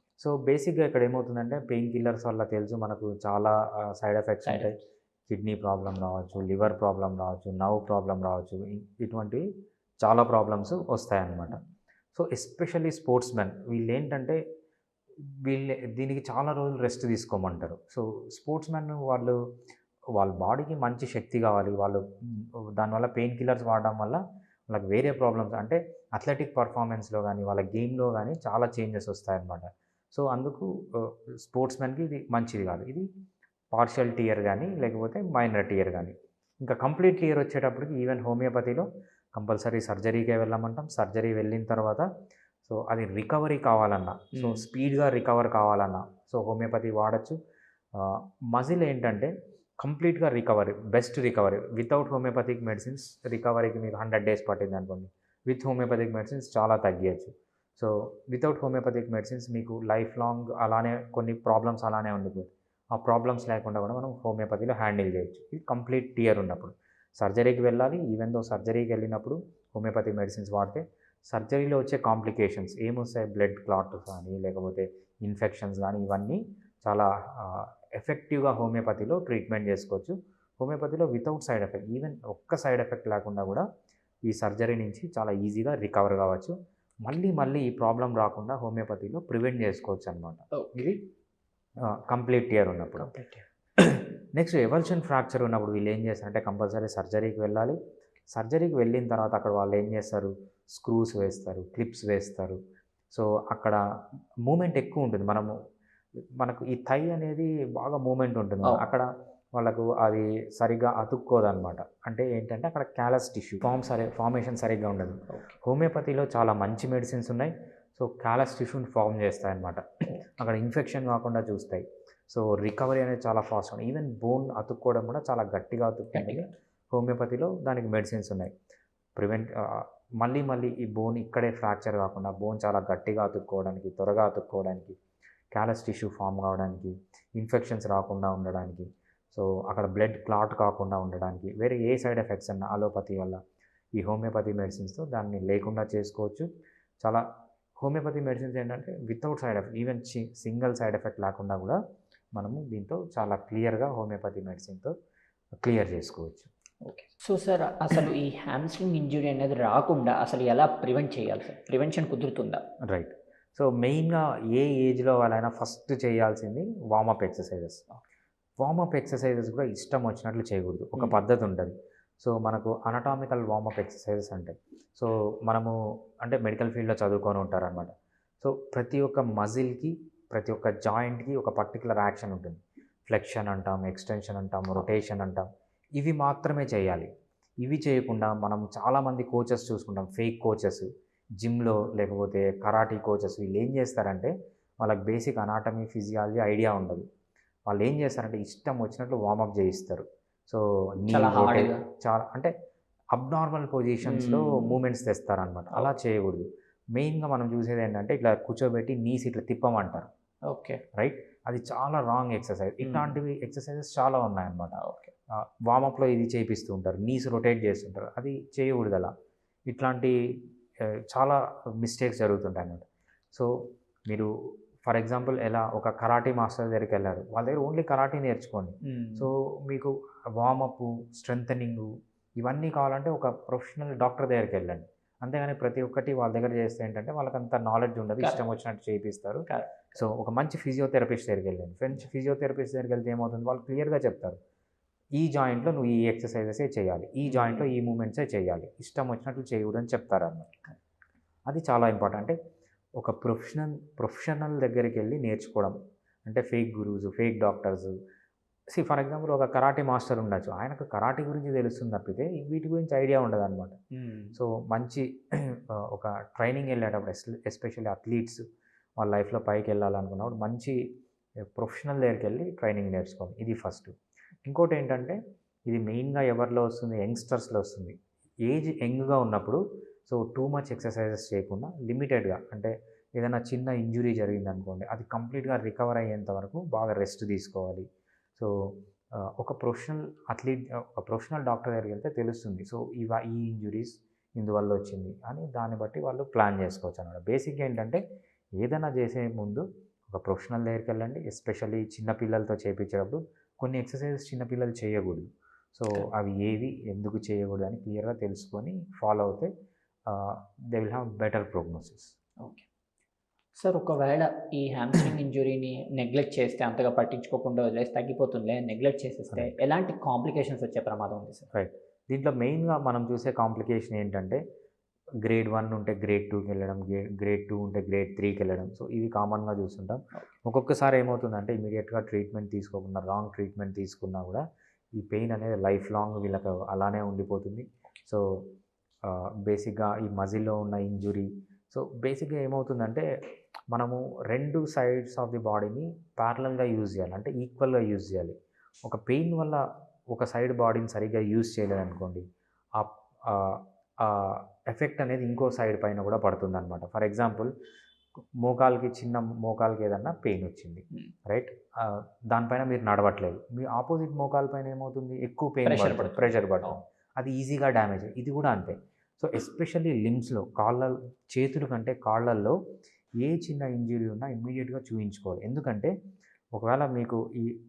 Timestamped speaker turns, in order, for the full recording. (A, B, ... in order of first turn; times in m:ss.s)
0:00.2-0:09.4 A
0:10.0-0:11.6 A
0:12.2-0:14.4 A
0:15.4-0:19.4 A
0:20.2-0:33.1 A
0:33.7-0:42.1 A
0:42.7-0:47.4 A
0:44.3-0:44.6 B
0:48.0-1:23.6 A
1:24.3-1:26.6 A
1:27.1-1:30.4 A
1:30.5-1:31.0 B
1:31.8-1:33.1 A
1:33.0-1:33.4 B
1:33.8-1:37.8 A
1:38.3-1:42.6 A
1:43.1-1:43.8 A
1:44.5-1:45.5 A
1:46.4-2:08.5 A
2:06.1-2:06.5 B
2:09.2-2:15.0 A
2:15.5-2:23.4 A
2:24.0-2:26.5 A
2:27.8-2:31.8 A
2:32.4-2:34.9 A
2:35.6-2:36.5 A
2:36.8-2:42.6 B
2:42.9-2:47.8 A
2:48.6-3:05.4 A
3:06.0-3:07.1 A
3:07.6-3:10.9 A
3:11.4-3:17.0 A
3:17.7-3:22.5 A
3:21.1-3:21.8 B
3:23.2-3:30.1 A
3:24.0-3:24.8 B
3:30.5-3:30.8 B
3:31.0-3:34.8 A
3:32.8-3:33.2 B
3:34.8-3:35.1 B
3:35.3-3:39.1 A
3:39.7-3:40.2 A
3:40.8-3:43.5 A
3:44.8-3:51.9 A
3:48.8-3:49.3 B
3:52.4-3:59.4 A
3:59.5-4:00.0 B
4:00.0-4:04.4 A
4:05.2-4:10.6 A
4:07.3-4:07.7 B
4:11.5-4:12.4 A
4:13.0-4:15.8 A
4:16.3-4:17.9 A
4:18.7-4:23.8 A
4:23.9-4:24.4 B
4:24.4-4:28.4 A
4:29.0-4:30.8 A
4:31.5-4:33.9 A
4:34.4-4:38.0 A
4:38.5-4:47.9 A
4:49.2-4:58.0 A
4:58.6-5:09.5 A
5:10.1-5:12.1 A
5:12.4-5:12.7 B
5:13.6-5:21.5 B
5:21.5-5:24.4 A
5:25.2-5:34.4 A
5:35.0-5:38.2 A
5:39.0-5:43.0 A
5:43.7-5:49.6 A
5:50.1-5:52.2 A
5:52.8-5:57.5 A
5:58.4-6:12.6 A
6:05.6-6:06.8 B
6:13.2-6:15.9 A
6:16.6-6:17.5 A